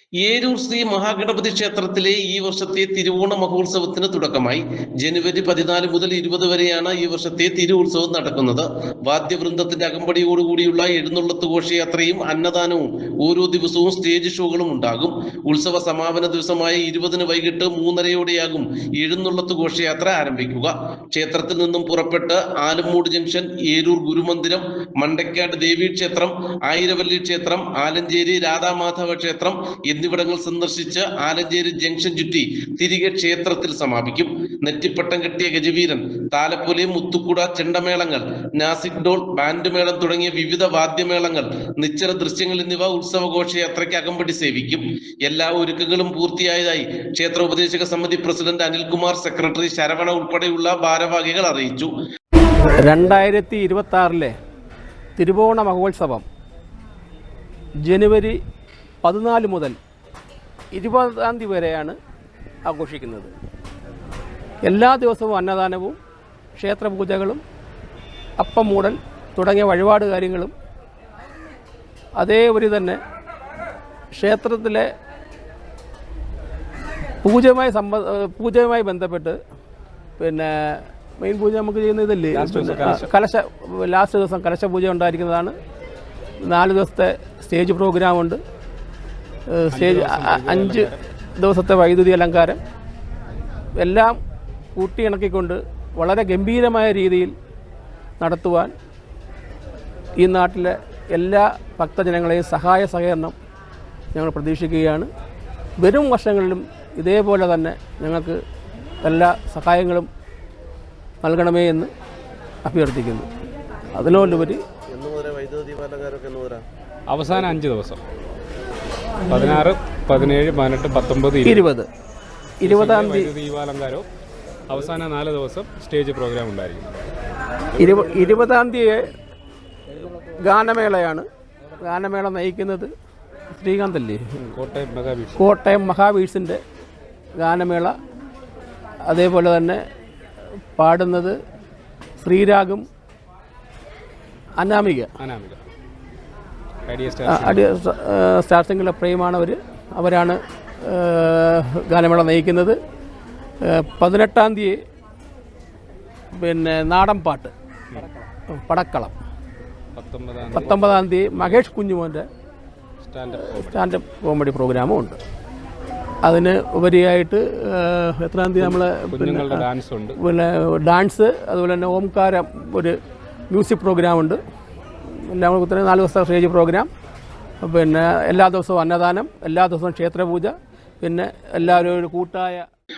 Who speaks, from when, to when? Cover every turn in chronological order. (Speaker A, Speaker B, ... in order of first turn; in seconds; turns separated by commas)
Speaker A: 0.2-51.9, Speaker B: 52.8-54.3, Speaker B: 55.2-56.2, Speaker B: 57.8-58.4, Speaker B: 59.0-59.8, Speaker B: 60.7-62.0, Speaker B: 62.6-63.3, Speaker B: 64.7-66.0, Speaker B: 66.5-67.4, Speaker B: 68.4-70.5, Speaker B: 72.2-73.0, Speaker B: 74.2-74.9, Speaker B: 77.2-79.4, Speaker B: 80.2-85.5, Speaker C: 82.3-83.1, Speaker B: 86.4-88.4, Speaker B: 89.5-92.6, Speaker C: 89.7-91.0, Speaker B: 93.8-94.2, Speaker B: 94.8-97.3, Speaker B: 98.2-98.7, Speaker B: 100.2-103.3, Speaker B: 104.1-105.1, Speaker B: 105.8-108.4, Speaker B: 109.0-110.1, Speaker B: 111.2-111.9, Speaker B: 112.6-113.3, Speaker B: 114.0-114.6, Speaker A: 114.9-116.6, Speaker C: 117.1-118.0, Speaker C: 119.3-121.6, Speaker B: 121.4-121.9, Speaker B: 122.6-123.3, Speaker C: 122.6-124.0, Speaker C: 124.7-126.9, Speaker B: 127.8-129.1, Speaker B: 130.4-131.2, Speaker B: 131.8-132.9, Speaker B: 133.6-134.2, Speaker C: 134.4-135.4, Speaker B: 135.3-136.6, Speaker B: 137.4-137.9, Speaker B: 139.1-139.8, Speaker B: 140.8-141.4, Speaker B: 142.2-142.9, Speaker B: 144.6-145.1, Speaker C: 145.2-145.6, Speaker C: 146.9-147.6, Speaker B: 147.2-152.8, Speaker B: 153.6-154.8, Speaker B: 156.3-157.5, Speaker B: 158.5-159.1, Speaker C: 159.9-161.6, Speaker B: 160.5-162.2, Speaker C: 163.0-163.9, Speaker B: 163.5-165.2, Speaker B: 166.2-169.7, Speaker C: 168.6-170.1, Speaker B: 170.2-172.9, Speaker B: 173.5-174.4, Speaker B: 175.2-176.9, Speaker B: 177.6-182.6